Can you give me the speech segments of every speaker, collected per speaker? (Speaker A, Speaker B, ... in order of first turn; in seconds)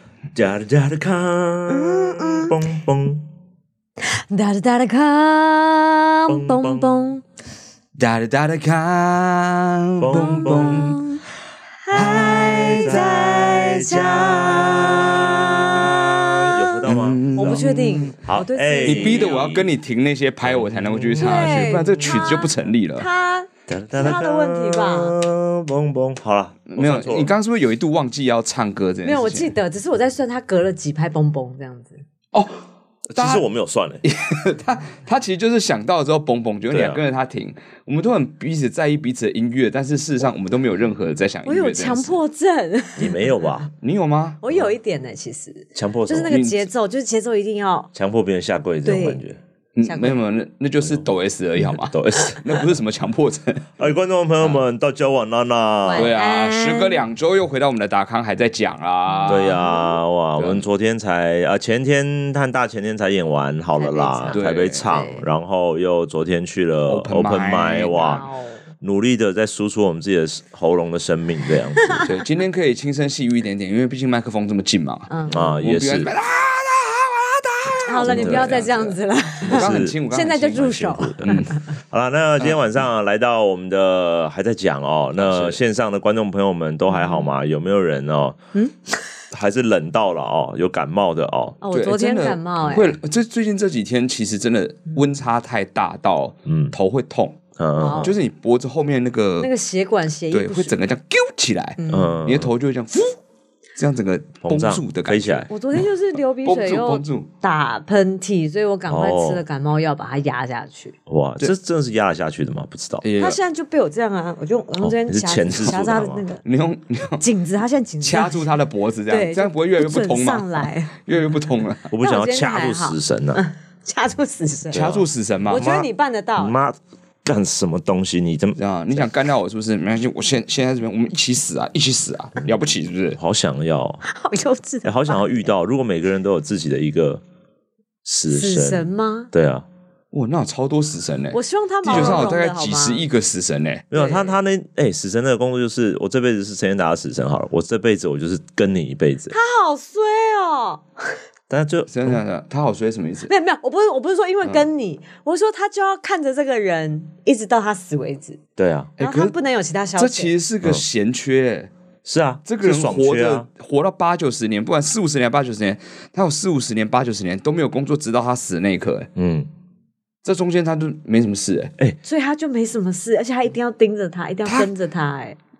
Speaker A: 0.3-3.3, 6.3-7.0, 10.0-11.0, 11.9-17.7, 18.2-19.7, 20.4-22.2, 23.7-27.3, 33.1-34.0, 36.7-37.0, 43.0-43.7, 45.8-46.3, 48.0-49.4, 51.8-52.6, 53.8-56.1, 59.3-68.3, 68.8-72.0, 75.3-76.1, 78.0-78.7, 79.4-88.4, 89.3-91.6, 96.5-96.7, 97.6-98.1, 101.9-102.5, 104.4-105.5, 108.9-109.4, 111.1-113.0, 114.8-116.2, 121.9-123.4, 124.7-129.1, 133.2-134.0, 134.8-137.2, 138.1-139.7, 141.9-142.3, 143.9-149.3, 151.5-152.2, 158.6-158.9, 162.1-163.5, 169.2-169.5
Speaker B: 1.7-2.5, 4.1-7.2, 10.2-11.2, 11.8-16.7, 17.4-19.4, 21.2-25.1, 29.0-32.0, 41.5-43.3, 44.4-47.9, 48.9-49.2, 49.9-50.2, 55.8-57.0, 59.1-60.0, 63.8-65.2, 68.0-68.6, 75.1-75.6, 77.8-81.5, 86.9-87.3, 88.5-88.9, 91.6-92.9, 97.8-98.1, 99.4-100.8, 101.8-102.2, 105.5-111.0, 113.2-116.4, 117.2-118.5, 119.1-120.9, 122.0-124.8, 125.5-126.5, 134.1-135.5, 138.3-139.3, 141.3-143.0, 143.9-144.3, 149.3-150.8, 153.3-158.4, 159.0-160.3, 172.0-175.4
Speaker C: 8.0-11.0, 11.9-13.1, 16.9-18.2, 18.9-23.1, 26.7-29.5, 32.3-32.6, 33.2-33.4, 34.0-42.2, 43.8-44.4, 46.3-46.7, 49.8-53.7, 56.0-59.6, 60.4-60.6, 64.3-64.8, 66.9-68.2, 72.0-81.5, 85.2-85.6, 91.7-97.4, 98.0-99.5, 100.3-103.1, 103.8-105.5, 106.5-107.3, 113.0-113.4, 116.4-117.2, 118.0-121.9, 124.7-125.7, 128.6-133.2, 140.1-143.8, 151.9-153.3, 159.0-159.3, 160.0-161.7, 162.5-169.1, 170.2-171.7, 174.4-174.7